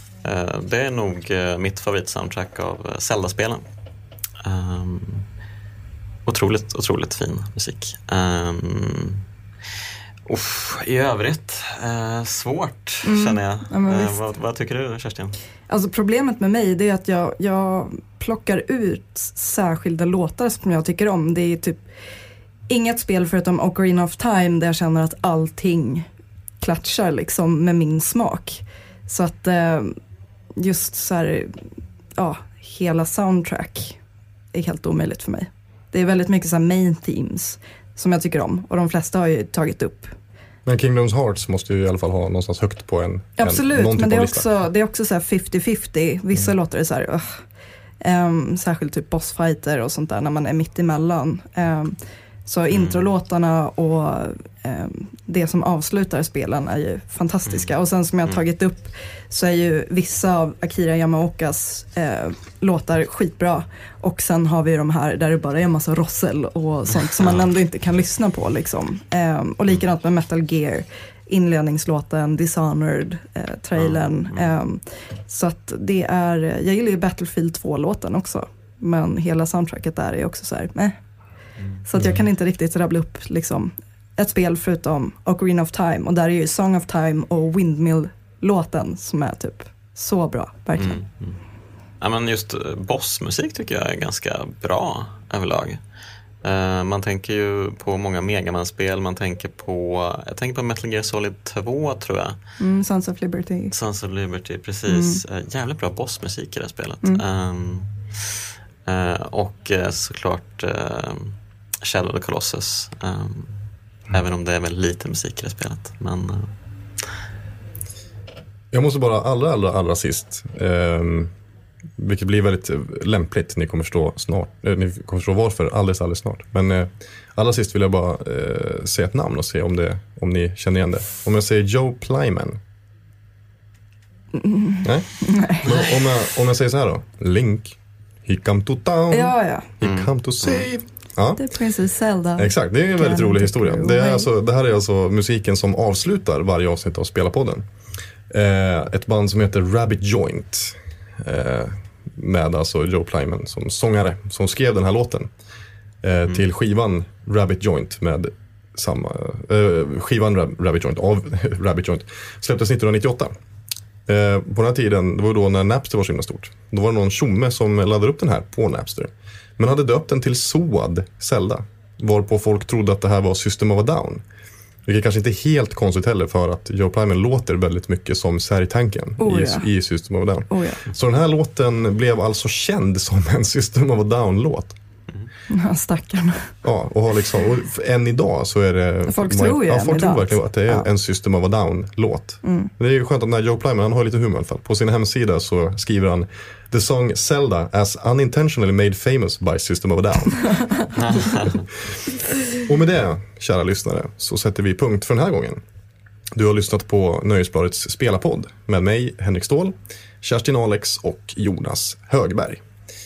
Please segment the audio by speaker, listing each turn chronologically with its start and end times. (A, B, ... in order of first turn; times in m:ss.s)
0:00.2-0:03.6 A
0:04.4-0:05.3 A
0:06.3-0:09.2 A
0:10.3-0:15.4 A
0:13.0-0:14.2 B
0:15.7-0:21.8 B
0:22.7-0:26.1 B
0:26.6-0:30.0 B
0:30.6-0:31.6 B
0:32.2-0:34.0 B
0:34.5-0:40.1 B
0:40.6-0:44.5 C
0:43.4-0:47.4 B
0:48.0-1:21.0 B
0:52.7-0:53.0 A
0:57.4-0:57.7 A
1:07.1-1:07.5 A
1:13.8-1:14.5 A
1:21.8-1:31.0 B
1:30.8-1:31.4 A
1:32.0-1:35.8 A
1:36.4-1:42.4 A
1:42.6-1:43.7 B
1:43.7-1:53.5 A
1:44.9-1:45.2 B
1:54.1-1:56.5 A
1:58.7-2:01.3 C
2:02.0-2:12.6 C
2:14.3-2:15.9 B
2:14.8-2:21.4 C
2:19.1-2:19.7 B
2:19.8-2:20.7 A
2:21.4-2:24.3 B
2:22.4-2:27.7 C
2:28.3-2:35.3 C
2:36.0-2:43.3 C
2:44.1-2:54.2 C
2:54.9-3:04.8 C
2:59.2-2:59.7 B
3:00.5-3:00.9 B
3:05.5-3:06.5 B
3:06.6-3:20.5 C
3:09.1-3:10.9 B
3:12.4-3:12.7 B
3:20.5-3:20.8 B
3:21.0-3:21.6 A
3:22.5-3:25.6 C
3:26.3-3:32.6 C